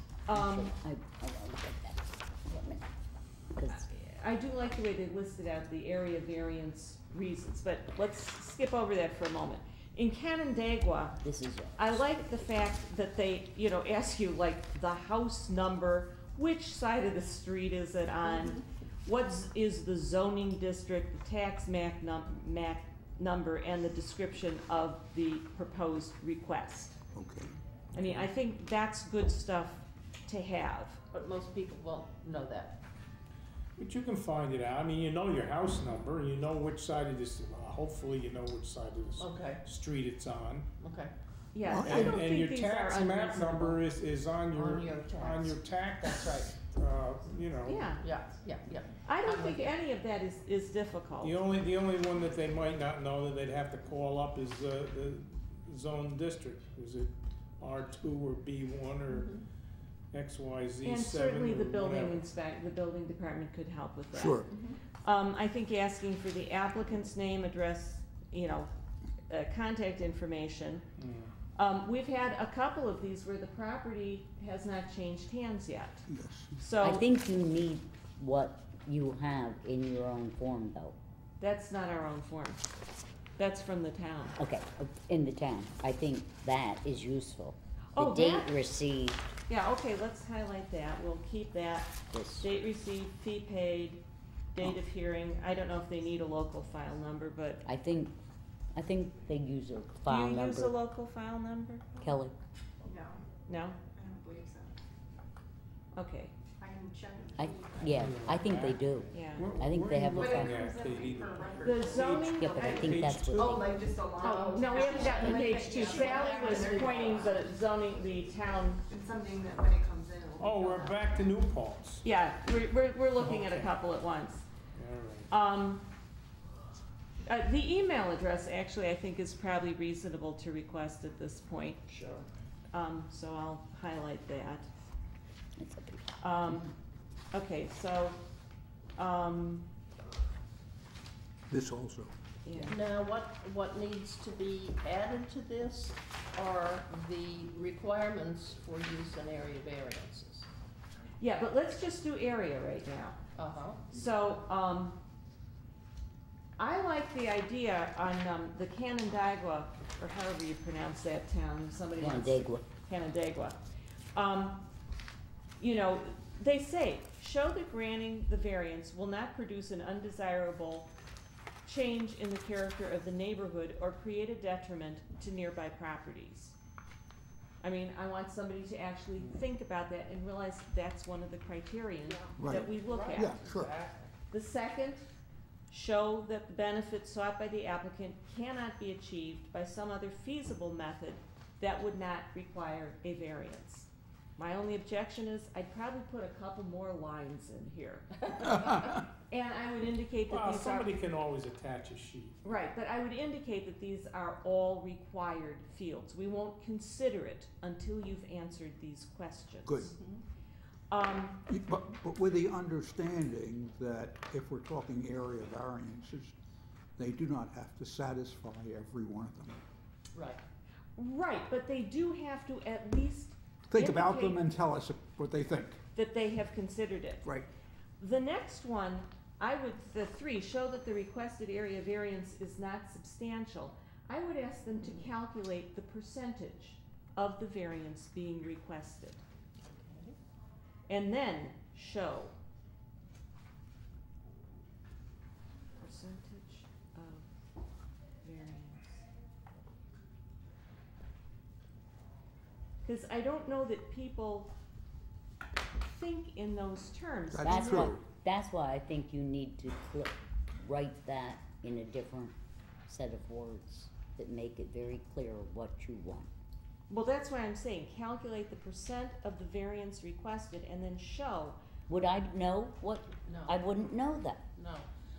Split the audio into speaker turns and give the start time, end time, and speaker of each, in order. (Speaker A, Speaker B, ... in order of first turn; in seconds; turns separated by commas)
Speaker A: 0.3-0.7, Speaker B: 0.3-2.9, Speaker B: 3.5-3.9, Speaker A: 3.7-11.2, Speaker B: 11.2-12.2, Speaker A: 11.8-27.0, Speaker C: 18.2-18.6, Speaker D: 27.1-27.5, Speaker A: 27.9-31.0, Speaker C: 31.1-32.8, Speaker E: 33.8-40.7, Speaker C: 39.2-39.6, Speaker C: 40.8-41.1, Speaker A: 41.5-43.8, Speaker D: 41.7-42.2, Speaker E: 41.8-48.0, Speaker C: 44.5-46.5, Speaker A: 47.7-48.1, Speaker C: 48.0-49.8, Speaker A: 49.0-51.4, Speaker E: 51.2-59.3, Speaker C: 59.1-59.4, Speaker E: 60.1-62.2, Speaker A: 60.8-64.5, Speaker D: 64.1-64.5, Speaker A: 65.0-68.7, Speaker A: 69.3-70.8, Speaker E: 71.0-71.3, Speaker A: 71.5-76.1, Speaker D: 76.1-76.6, Speaker A: 76.6-77.1, Speaker B: 76.8-81.0, Speaker A: 81.4-82.7, Speaker A: 83.4-84.4, Speaker B: 84.4-89.3, Speaker A: 88.0-88.5, Speaker A: 89.5-97.7, Speaker B: 92.1-92.5, Speaker B: 97.7-98.1, Speaker B: 98.7-100.7, Speaker A: 100.1-102.1, Speaker B: 102.0-102.4, Speaker F: 102.8-103.2, Speaker A: 103.5-103.8, Speaker F: 103.9-104.8, Speaker A: 105.9-106.3, Speaker F: 106.6-108.1, Speaker B: 107.4-110.6, Speaker E: 107.8-113.9, Speaker A: 109.1-109.5, Speaker F: 110.2-117.4, Speaker A: 111.6-113.0, Speaker B: 112.2-113.8, Speaker C: 114.2-117.2, Speaker A: 114.2-118.8, Speaker F: 118.9-121.1, Speaker E: 120.4-122.0, Speaker A: 122.0-124.5, Speaker E: 123.2-123.7, Speaker E: 124.7-125.3, Speaker A: 125.3-125.9, Speaker A: 127.2-131.8, Speaker C: 131.9-132.2, Speaker A: 132.7-134.7, Speaker B: 135.6-136.1, Speaker A: 136.2-136.7, Speaker A: 137.3-138.2, Speaker A: 139.0-139.7, Speaker D: 141.5-142.1, Speaker A: 142.4-142.8, Speaker C: 142.7-150.5, Speaker A: 151.2-153.2, Speaker C: 153.3-153.9, Speaker A: 153.9-155.0, Speaker A: 156.6-163.6, Speaker B: 162.0-162.6, Speaker A: 164.1-164.7, Speaker A: 165.6-170.9, Speaker A: 171.7-176.6, Speaker A: 177.6-183.4, Speaker C: 182.1-183.5, Speaker D: 182.4-183.7, Speaker E: 182.9-184.1, Speaker A: 184.3-185.1, Speaker A: 185.7-200.9, Speaker E: 200.3-202.4, Speaker A: 202.4-209.9, Speaker D: 209.7-209.9, Speaker C: 209.9-210.2, Speaker A: 210.9-211.4, Speaker D: 211.5-216.3, Speaker D: 217.0-219.6, Speaker C: 220.1-220.4, Speaker A: 221.0-224.4, Speaker D: 223.7-225.8, Speaker A: 225.9-227.3, Speaker D: 227.2-227.5, Speaker A: 228.0-239.2, Speaker C: 239.6-240.2, Speaker A: 240.9-242.3, Speaker A: 245.8-247.3, Speaker A: 248.2-249.1, Speaker A: 252.8-254.5, Speaker A: 255.8-258.0, Speaker D: 257.3-257.9, Speaker B: 257.4-262.3, Speaker B: 262.9-266.3, Speaker A: 266.9-271.6, Speaker B: 271.9-274.4, Speaker C: 273.3-273.6, Speaker C: 274.6-274.9